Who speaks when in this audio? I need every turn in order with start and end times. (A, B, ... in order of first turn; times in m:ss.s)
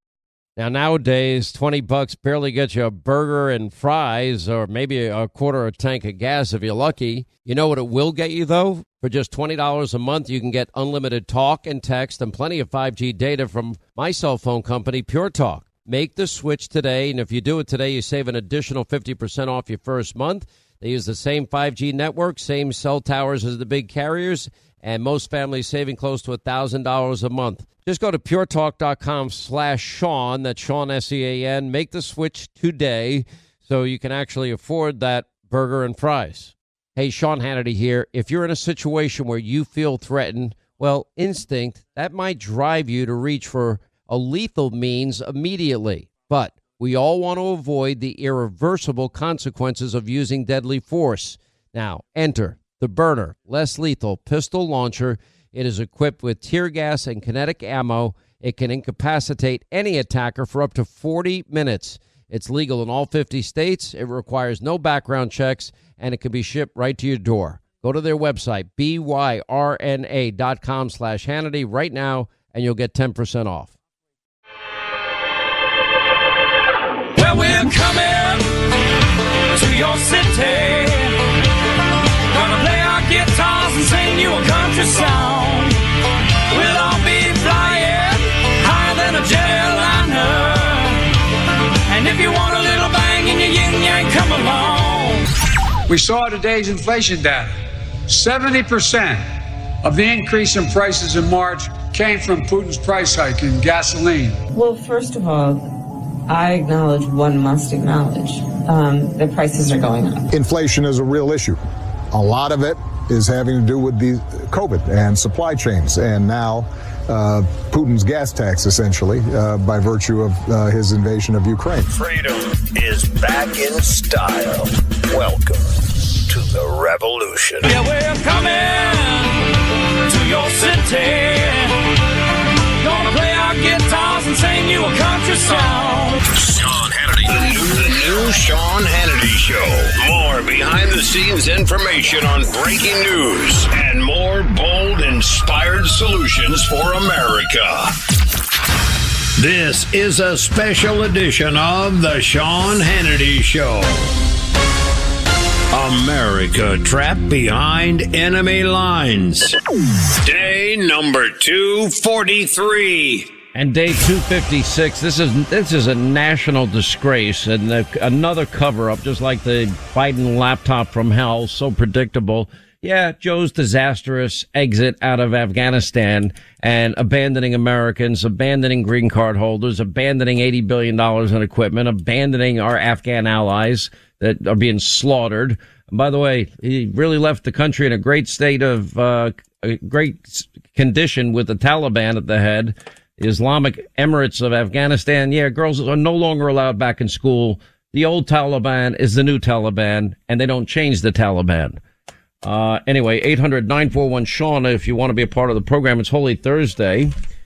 0:00.6-1:13.8 A
1:17.2-1:18.6 B
1:19.5-1:21.2 B
1:22.3-1:25.8 B
1:26.5-1:31.0 B
1:31.9-1:35.3 B
1:35.9-1:37.5 C
1:38.1-1:39.3 C
1:39.8-1:44.4 C
1:44.5-1:45.7 D
1:46.3-1:50.3 D
1:50.3-1:51.6 E
1:52.1-2:01.9 E
2:01.9-2:07.7 F
2:07.6-2:09.5 B
2:10.1-2:11.8 B
2:12.8-2:16.2 B
2:16.4-2:28.0 F
2:29.4-2:34.2 F
2:35.7-2:39.6 F
2:40.2-2:43.3 F
2:43.5-3:21.8 A
3:22.4-3:27.1 A